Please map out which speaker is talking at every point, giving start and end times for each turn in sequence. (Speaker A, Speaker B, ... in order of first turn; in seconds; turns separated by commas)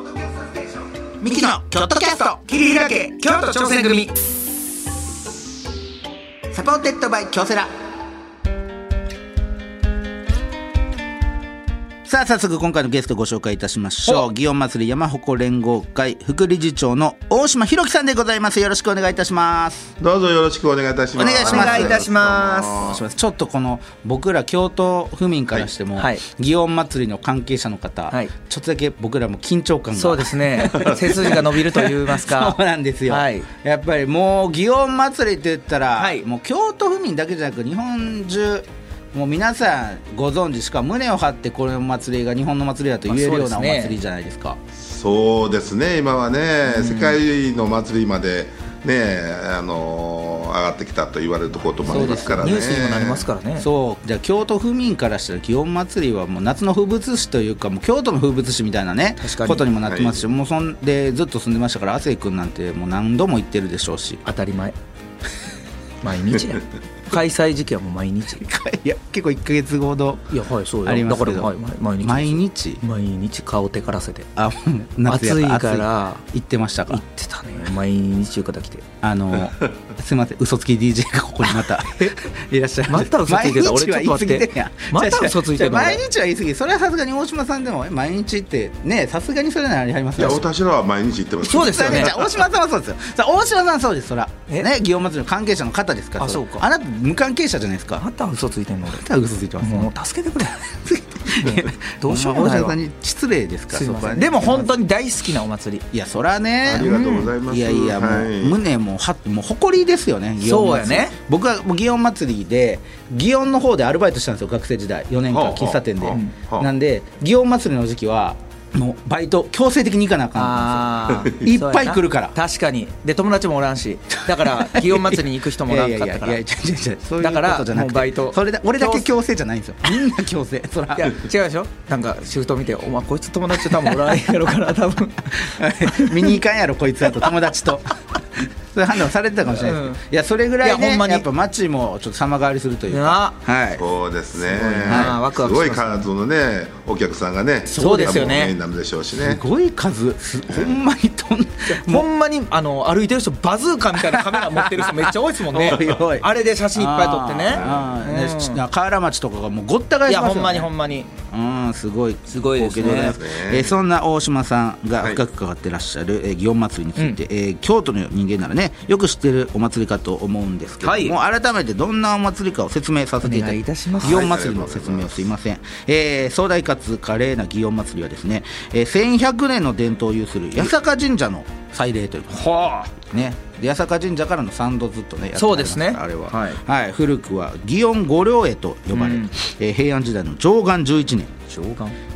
Speaker A: 1.2-2.4, Speaker B: 2.5-4.1, Speaker A: 6.5-7.7, Speaker A: 12.1-19.9, Speaker C: 20.0-23.0, Speaker A: 21.1-22.0, Speaker B: 21.4-22.9, Speaker A: 22.8-44.6, Speaker B: 26.0-26.2, Speaker B: 29.9-33.5, Speaker B: 36.0-36.2, Speaker B: 43.1-44.0, Speaker C: 44.7-53.2, Speaker B: 46.7-47.2, Speaker B: 51.8-53.7, Speaker A: 51.9-52.7, Speaker A: 53.6-64.2, Speaker B: 59.2-59.6, Speaker C: 59.8-60.2, Speaker B: 64.2-64.7, Speaker B: 66.0-68.4, Speaker A: 68.4-70.3, Speaker B: 70.3-74.3, Speaker A: 70.8-72.8, Speaker A: 74.4-77.0, Speaker B: 75.1-76.2, Speaker B: 76.9-78.8, Speaker A: 79.0-90.4, Speaker B: 81.8-82.1, Speaker B: 82.9-86.0, Speaker C: 90.2-92.2, Speaker B: 91.5-92.2, Speaker A: 91.5-98.0, Speaker B: 96.2-96.6, Speaker B: 98.0-99.0, Speaker A: 98.9-99.9, Speaker B: 99.6-100.8, Speaker A: 100.9-104.7, Speaker B: 102.0-102.8, Speaker B: 103.7-105.8, Speaker A: 105.9-106.9, Speaker C: 106.6-108.6, Speaker B: 106.7-107.3, Speaker A: 107.5-122.3, Speaker B: 110.4-111.1, Speaker C: 115.3-116.7, Speaker B: 120.3-126.4, Speaker A: 124.3-131.2, Speaker B: 127.2-129.0, Speaker B: 130.9-136.4, Speaker A: 135.3-138.0, Speaker B: 137.2-137.5, Speaker A: 138.7-143.8, Speaker B: 139.5-140.0, Speaker B: 140.6-141.2, Speaker B: 142.9-143.4, Speaker C: 143.8-149.4, Speaker A: 144.4-145.2, Speaker B: 144.8-146.1, Speaker B: 147.7-148.5, Speaker A: 147.7-148.4, Speaker A: 149.2-152.1, Speaker C: 150.5-150.7, Speaker B: 151.8-158.6, Speaker A: 154.1-160.7, Speaker C: 157.5-157.9, Speaker B: 160.1-161.1, Speaker A: 161.3-191.3, Speaker B: 162.3-163.2, Speaker C: 162.8-163.7, Speaker B: 170.8-171.2, Speaker B: 173.2-174.3, Speaker C: 174.0-175.3, Speaker B: 182.3-182.9, Speaker B: 185.4-186.6, Speaker B: 188.9-189.3, Speaker B: 191.5-192.0